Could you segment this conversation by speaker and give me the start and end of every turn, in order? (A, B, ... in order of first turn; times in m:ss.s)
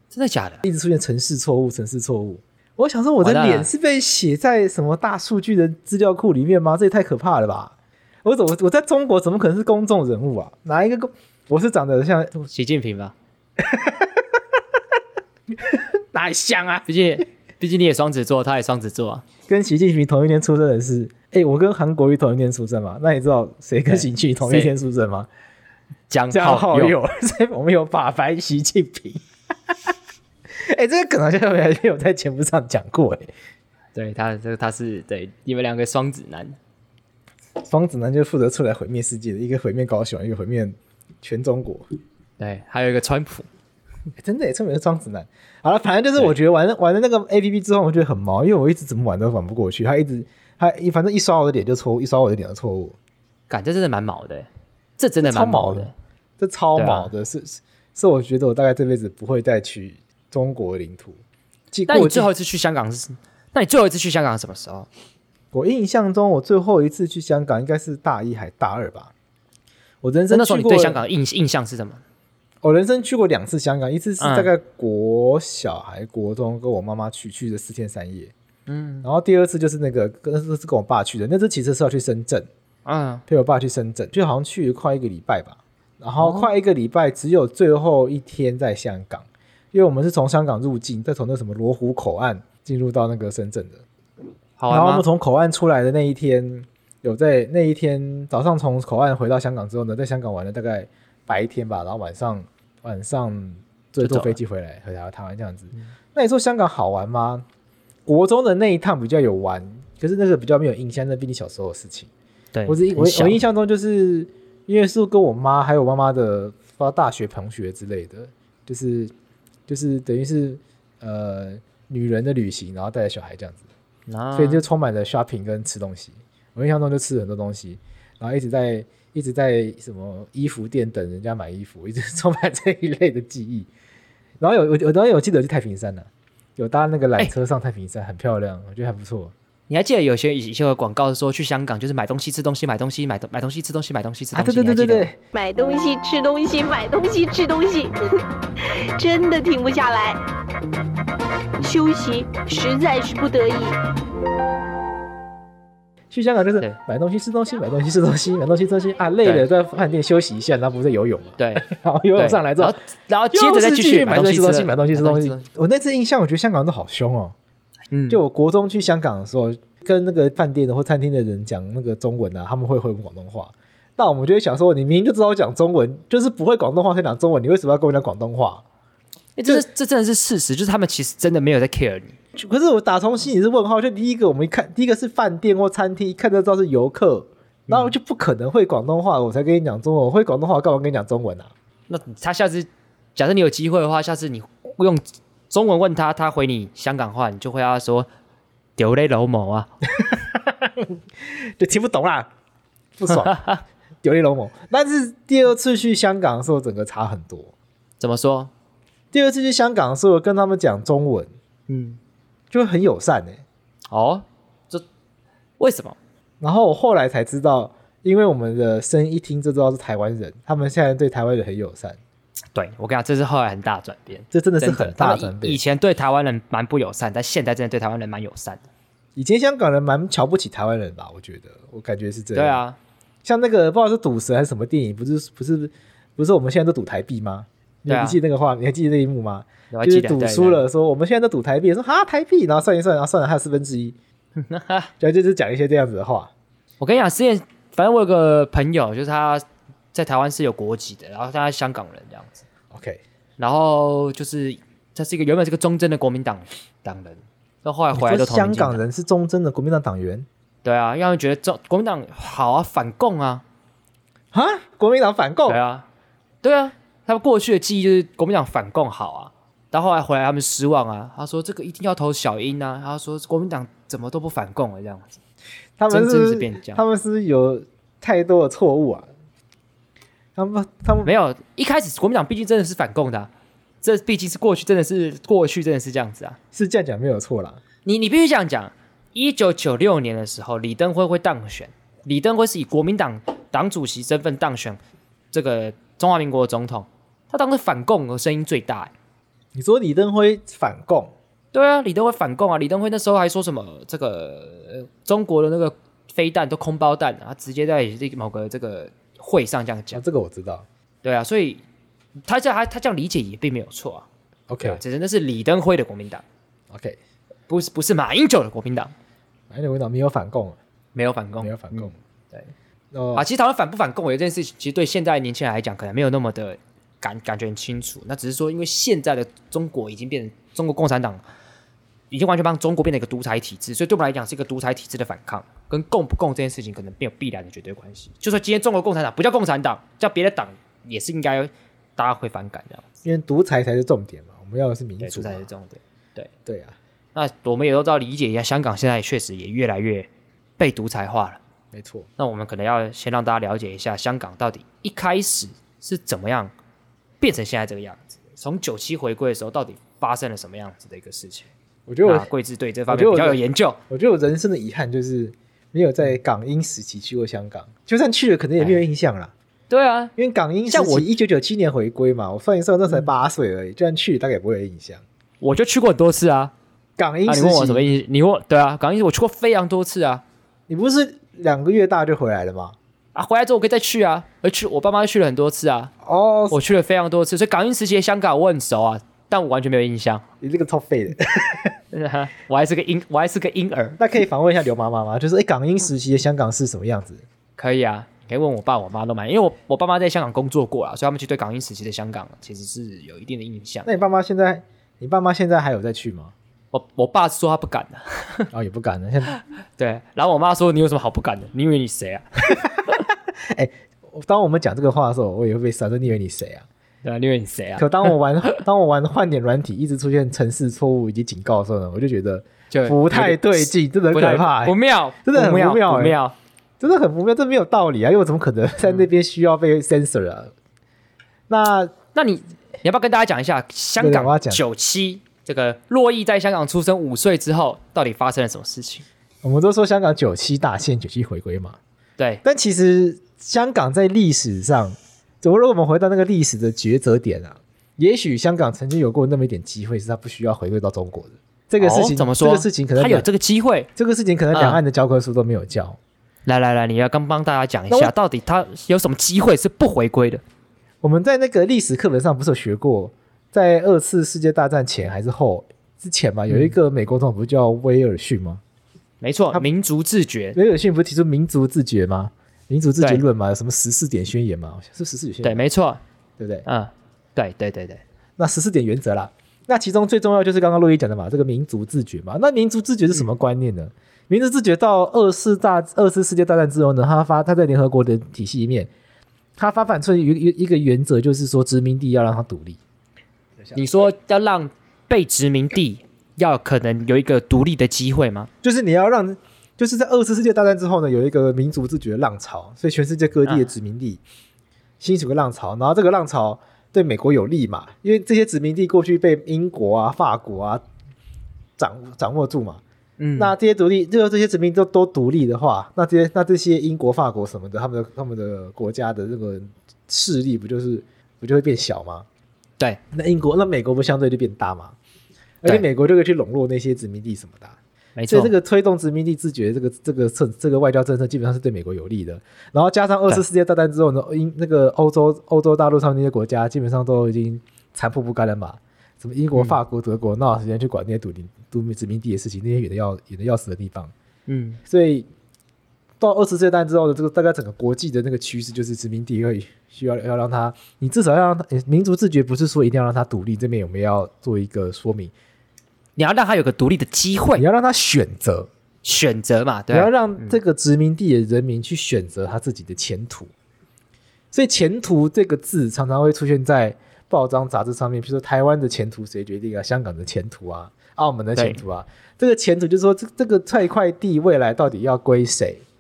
0:00.1-0:00.6 A
0:00.6-0:12.5 B
0:03.2-0:03.7 A
0:12.5-0:13.2 A
0:13.6-0:14.1 B
0:15.6-0:16.9 B
0:16.9-0:19.3 A
0:19.5-0:25.3 B
0:23.9-0:24.7 A
0:26.1-0:27.0 A
0:26.3-0:29.2 B
0:30.6-0:33.3 B
0:34.0-0:36.6 A
0:37.6-0:41.9 B
0:42.4-0:43.5 A
0:44.2-0:53.0 B
0:53.5-0:55.9 A
0:55.2-1:01.2 B
0:56.8-0:57.1 A
1:01.7-1:02.3 B
1:01.9-1:04.9 A
1:05.5-1:09.1 B
1:10.0-1:11.0 B
1:10.3-1:12.0 A
1:12.6-1:18.3 B
1:14.2-1:14.5 A
1:18.7-1:19.1 A
1:19.0-1:22.5 B
1:22.8-1:23.2 A
1:23.3-1:33.8 B
1:26.2-1:26.5 A
1:34.6-1:35.0 A
1:34.7-1:47.4 B
1:44.0-1:44.4 A
1:48.1-1:52.1 B
1:52.5-1:53.4 A
1:52.7-1:59.1 B
1:59.7-2:03.6 B
2:04.1-2:04.6 A
2:04.4-2:13.7 B
2:14.4-2:19.3 B
2:19.7-2:25.1 A
2:24.3-2:25.2 B
2:25.3-2:28.0 C
2:28.6-2:30.2 C
2:31.6-2:33.8 C
2:36.1-2:42.8 B
2:41.4-2:45.4 A
2:43.3-2:47.4 B
2:47.9-2:48.2 A
2:48.1-2:58.6 B
2:59.4-3:02.2 A
3:02.4-3:11.5 B
3:07.7-3:08.0 A
3:11.9-3:18.1 A
3:18.8-3:19.7 A
3:20.0-3:22.3 B
3:23.0-3:23.5 B
3:23.1-3:23.6 A
3:24.0-3:27.5 B
3:28.0-3:28.5 A
3:29.1-3:31.3 B
3:31.7-3:32.0 A
3:32.5-3:33.4 B
3:33.9-3:34.8 A
3:35.6-3:36.0 A
3:36.4-3:42.0 B
3:42.5-3:48.6 A
3:44.3-3:45.6 B
3:49.2-3:52.6 B
3:52.3-3:52.8 A
3:53.2-4:04.0 B
3:57.9-3:58.2 A
3:59.7-4:00.6 A
4:04.4-4:04.9 A
4:05.0-4:06.3 B
4:06.8-4:12.4 A
4:12.7-4:13.0 B
4:13.4-4:18.8 A
4:17.9-4:20.3 B
4:20.6-4:23.4 A
4:24.3-4:25.6 B
4:25.5-4:25.9 A
4:26.4-4:35.2 A
4:35.8-4:39.1 B
4:35.9-4:36.8 A
4:40.4-4:41.1 B
4:41.0-4:43.3 A
4:43.8-4:46.4 A
4:46.5-4:47.6 B
4:47.8-4:54.8 A
4:55.3-4:58.9 A
4:59.6-5:01.1 B
5:01.5-5:10.0 A
5:09.9-5:10.7 B
5:11.0-5:11.6 A
5:12.2-5:14.1 A
5:14.5-5:14.8 B
5:14.6-5:16.2 A
5:16.7-5:17.0 B
5:17.5-5:18.9 A
5:19.5-5:20.6 B
5:21.0-5:22.5 A
5:21.4-5:22.0 B
5:22.9-5:23.3 B
5:23.2-5:31.2 A
5:32.1-5:42.8 A
5:43.0-5:45.5 B
5:45.0-5:46.3 A
5:46.5-5:46.8 B
5:47.2-5:51.4 A
5:51.7-5:52.1 B
5:52.2-5:56.5 A
5:57.2-6:01.5 A
6:01.9-6:02.3 B
6:02.0-6:03.8 A
6:02.9-6:09.3 B
6:09.7-6:10.1 A
6:10.2-6:15.0 B
6:10.7-6:11.1 A
6:15.4-6:16.5 A
6:17.0-6:17.9 B
6:17.3-6:20.2 A
6:20.7-6:22.8 B
6:23.2-6:25.9 A
6:26.0-6:26.6 B
6:26.5-6:30.2 A
6:30.4-6:31.7 B
6:31.9-6:34.0 A
6:34.0-6:37.2 B
6:37.6-6:43.9 A
6:43.8-6:46.3 B
6:46.7-6:48.5 A
6:48.5-6:49.4 B
6:49.3-6:52.9 A
6:52.5-6:56.7 B
6:57.0-6:58.1 A
6:57.8-7:06.2 B
7:02.7-7:06.4 A
7:06.8-7:10.5 B
7:11.5-7:11.9 B
7:12.1-7:19.0 A
7:14.0-7:14.6 B
7:19.4-7:21.8 B
7:22.2-7:22.4 A
7:22.4-7:33.3 B
7:31.8-7:33.9 A
7:34.0-7:36.0 B
7:34.5-7:34.8 A
7:36.5-7:40.4 A
7:41.0-7:48.6 B
7:49.2-7:50.6 A
7:50.5-7:55.6 B
7:55.4-7:56.0 A
7:56.4-7:56.7 B
7:56.7-7:58.0 A
7:58.4-8:08.9 B
8:09.6-8:12.8 B
8:13.7-8:18.5 A
8:18.6-8:24.2 B
8:25.0-8:30.8 B
8:31.8-8:32.8 B
8:33.2-8:33.5 A
8:33.4-8:42.3 B
8:43.1-8:45.0 B
8:45.6-8:47.8 B
8:48.2-8:48.5 A
8:48.3-9:04.1 B
9:04.5-9:04.8 A
9:04.9-9:05.3 B
9:06.2-9:15.3 B
9:16.2-9:17.6 A
9:17.6-9:18.7 B
9:19.0-9:20.6 A
9:19.9-9:23.5 B
9:24.5-9:35.8 B
9:31.6-9:31.8 A